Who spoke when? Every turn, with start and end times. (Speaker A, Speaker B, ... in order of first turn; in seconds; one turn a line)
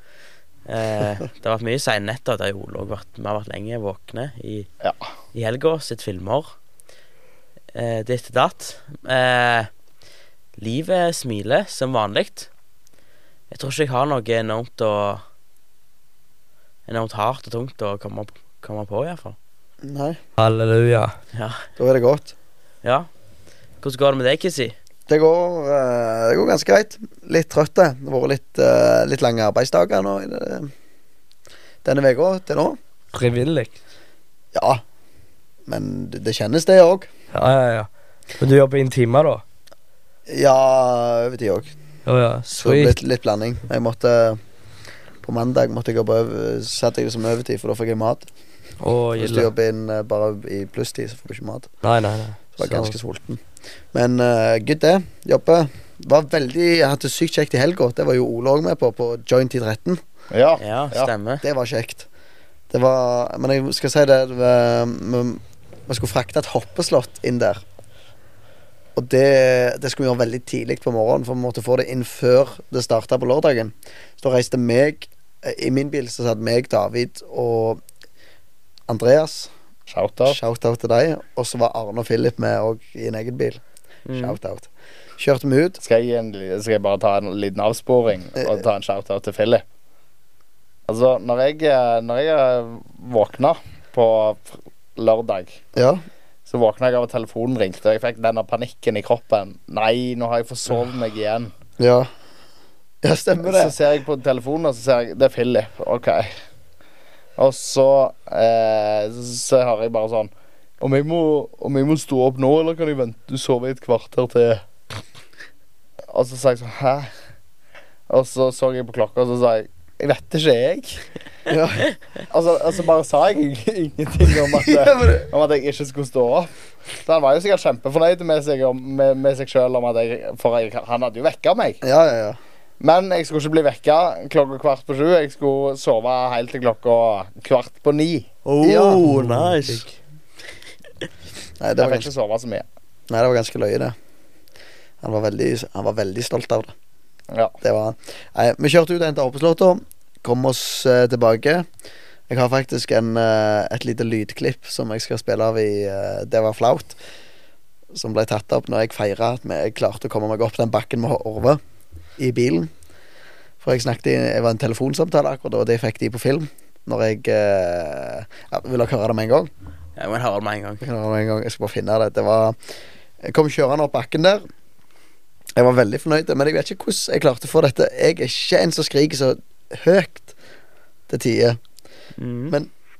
Speaker A: 0.7-4.7
Speaker A: 5.3-6.5
Speaker A: 7.7-9.7
Speaker A: 10.6-12.5
Speaker A: 13.5-15.2
Speaker A: 16.9-19.4
Speaker B: 19.8-20.2
Speaker C: 20.4-21.1
Speaker A: 21.3-21.6
Speaker B: 21.8-22.3
Speaker A: 22.8-23.1
Speaker A: 23.8-24.8
Speaker B: 25.1-30.7
Speaker B: 31.8-32.8
Speaker C: 33.1-33.8
Speaker B: 34.5-34.8
Speaker B: 35.7-37.1
Speaker C: 37.3-37.9
Speaker C: 38.4-39.4
Speaker B: 40.3-41.7
Speaker C: 42.1-43.0
Speaker B: 42.6-44.4
Speaker B: 45.2-48.3
Speaker C: 48.8-49.5
Speaker B: 49.2-51.7
Speaker C: 51.8-53.0
Speaker B: 52.6-53.4
Speaker B: 53.9-60.0
Speaker D: 60.3-61.1
Speaker A: 60.6-61.4
Speaker B: 61.4-62.1
Speaker B: 62.7-67.6
Speaker B: 68.9-77.8
Speaker B: 78.9-79.5
Speaker D: 79.9-80.4
Speaker B: 80.2-83.6
Speaker A: 84.1-84.4
Speaker B: 84.1-85.8
Speaker D: 85.8-89.6
Speaker B: 88.4-88.6
Speaker D: 90.9-95.6
Speaker B: 95.8-96.0
Speaker D: 96.5-101.5
Speaker B: 101.8-102.1
Speaker B: 103.0-103.7
Speaker D: 103.4-106.3
Speaker D: 107.4-114.6
Speaker D: 116.1-117.1
Speaker D: 118.1-121.0
Speaker B: 121.5-121.9
Speaker D: 122.3-131.8
Speaker B: 124.4-125.3
Speaker B: 131.8-132.4
Speaker D: 132.8-138.3
Speaker A: 138.4-139.8
Speaker B: 138.6-139.4
Speaker C: 139.4-139.9
Speaker B: 141.6-142.1
Speaker D: 141.8-142.6
Speaker B: 143.1-143.9
Speaker B: 145.0-146.7
Speaker B: 147.6-151.7
Speaker B: 152.3-156.9
Speaker B: 157.9-161.6
Speaker B: 162.2-162.7
Speaker B: 163.6-169.5
Speaker A: 170.0-170.8
Speaker B: 170.8-172.6
Speaker B: 173.2-174.4
Speaker B: 175.6-180.3
Speaker B: 181.1-181.6
Speaker A: 182.2-182.5